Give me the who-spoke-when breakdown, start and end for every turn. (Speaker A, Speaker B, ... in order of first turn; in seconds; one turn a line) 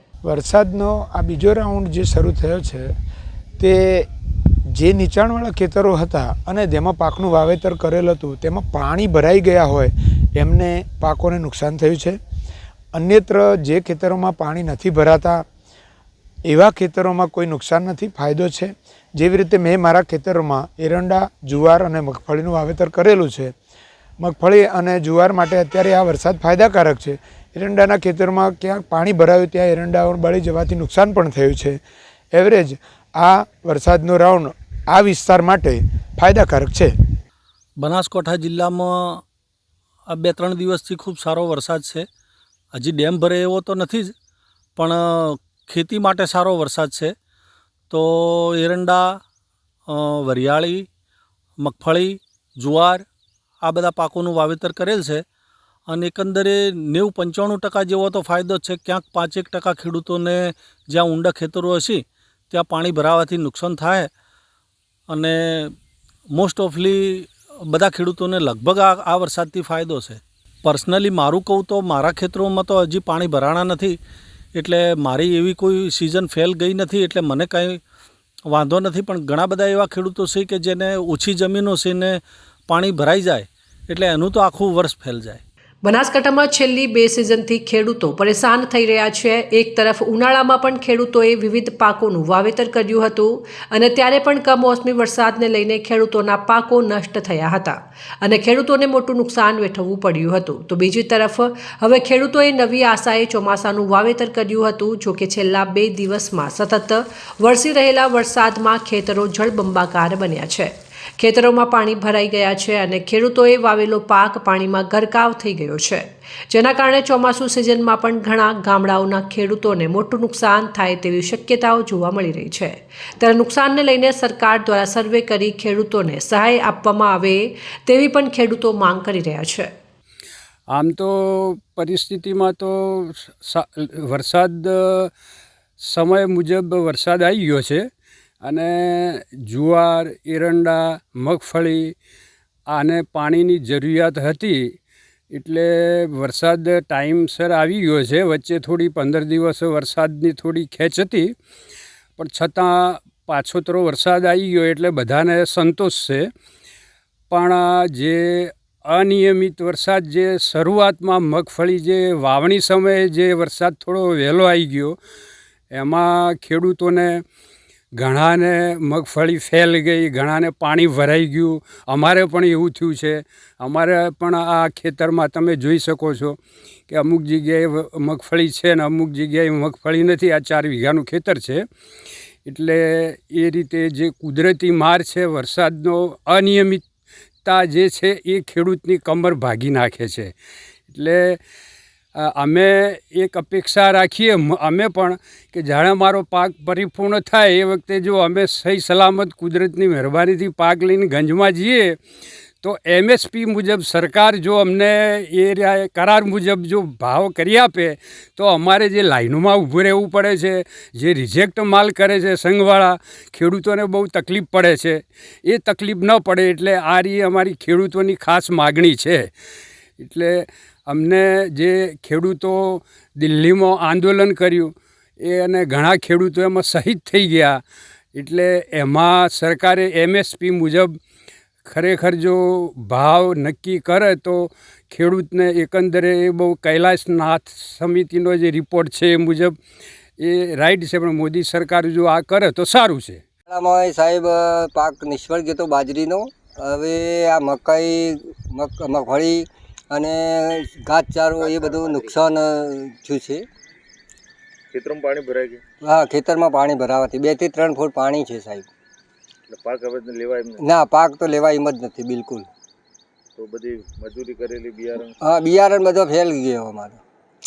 Speaker A: 0.2-2.9
Speaker A: 3.6-4.1
Speaker A: 4.8-12.2
Speaker A: 12.9-15.4
Speaker A: 16.5-23.5
Speaker A: 24.2-31.8
Speaker A: 32.3-36.9
Speaker B: 37.8-39.2
Speaker B: 40.1-42.1
Speaker B: 42.7-44.1
Speaker B: 44.8-47.1
Speaker B: 47.9-49.2
Speaker B: 49.9-50.9
Speaker B: 51.6-53.1
Speaker B: 53.6-55.2
Speaker B: 55.9-64.1
Speaker B: 65.1-65.8
Speaker B: 66.3-74.0
Speaker B: 74.5-77.8
Speaker B: 78.5-85.4
Speaker C: 85.8-129.7
Speaker D: 130.7-135.1
Speaker D: 135.8-137.9
Speaker D: 138.4-141.9
Speaker D: 142.7-144.7
Speaker D: 145.3-151.3
Speaker D: 152.2-156.3
Speaker D: 157.3-165.0
Speaker D: 165.7-167.2
Speaker D: 168.0-176.4
Speaker D: 176.9-181.6
Speaker D: 182.5-186.8
Speaker D: 187.4-190.3
Speaker D: 190.9-191.4
Speaker D: 192.2-202.0
Speaker D: 202.6-219.3
Speaker D: 220.0-227.6
Speaker D: 228.2-231.0
Speaker D: 231.7-239.6
Speaker D: 240.2-243.2
Speaker E: 243.5-253.5
Speaker F: 251.4-252.2
Speaker F: 254.7-255.6
Speaker E: 255.8-258.7
Speaker F: 259.5-260.6
Speaker E: 260.6-262.5
Speaker F: 263.4-265.1
Speaker E: 265.2-267.0